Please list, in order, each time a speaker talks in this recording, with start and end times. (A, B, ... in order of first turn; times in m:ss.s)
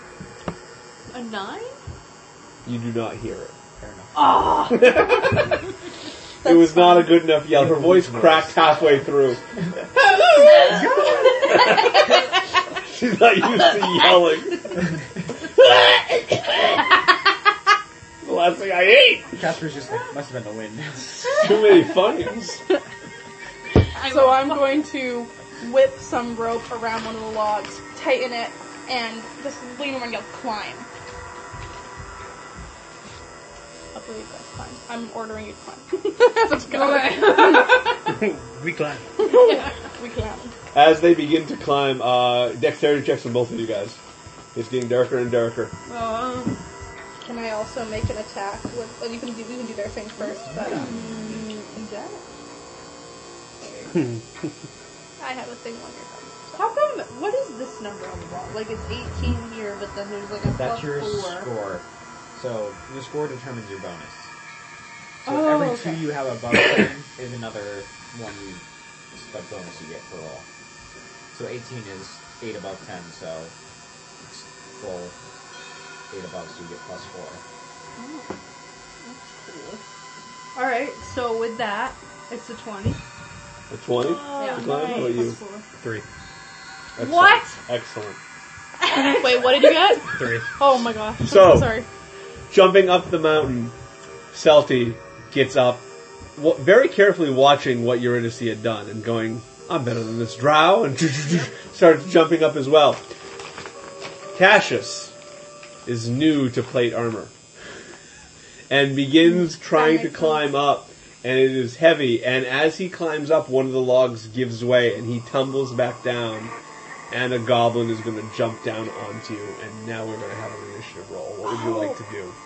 0:01.1-0:01.8 A
0:02.6-0:03.6 B
0:03.8-0:04.2 C
0:04.1-0:05.3 A
0:04.7-0:05.5 B
0:06.4-0:16.8 B
0:06.4-0:07.3 D
0:10.5-0:11.6 C
0:18.2-0:19.5 B
0:19.3-0:21.6 C
0:21.3-0:22.6 B
0:23.9-0:24.8 A
0:24.0-0:30.9 D
0:33.9-0:37.9 D
0:36.7-0:38.0 A
0:38.0-0:39.2 E
0:39.2-0:40.5 D
0:40.7-0:44.0 B
0:44.5-0:45.8 B
0:45.8-0:46.6 A
0:47.2-0:50.9 D
0:50.6-0:52.2 A
0:55.2-0:56.6 D
0:56.5-1:01.5 A
1:00.5-1:04.3 C
1:05.2-1:06.3 A
1:05.2-1:10.4 C
1:11.3-1:13.5 C
1:14.3-1:15.1 C
1:16.1-1:17.4 C
1:18.0-1:18.3 A
1:19.0-1:19.8 A
1:20.5-1:23.0 A
1:23.7-1:25.4 B
1:24.0-1:25.6 A
1:24.2-1:25.3 D
1:25.8-1:26.0 E
1:27.0-1:27.6 A
1:27.0-1:28.2 B
1:28.8-1:29.9 A
1:29.0-1:31.9 D
1:30.1-1:30.6 E
1:31.2-1:31.8 B
1:32.5-1:33.7 B
1:34.3-1:35.8 B
1:36.4-1:43.1 B
1:44.3-1:45.1 B
1:45.8-1:47.3 B
1:48.7-1:56.5 B
1:49.3-1:50.5 D
1:57.1-2:02.4 B
2:01.4-2:02.0 D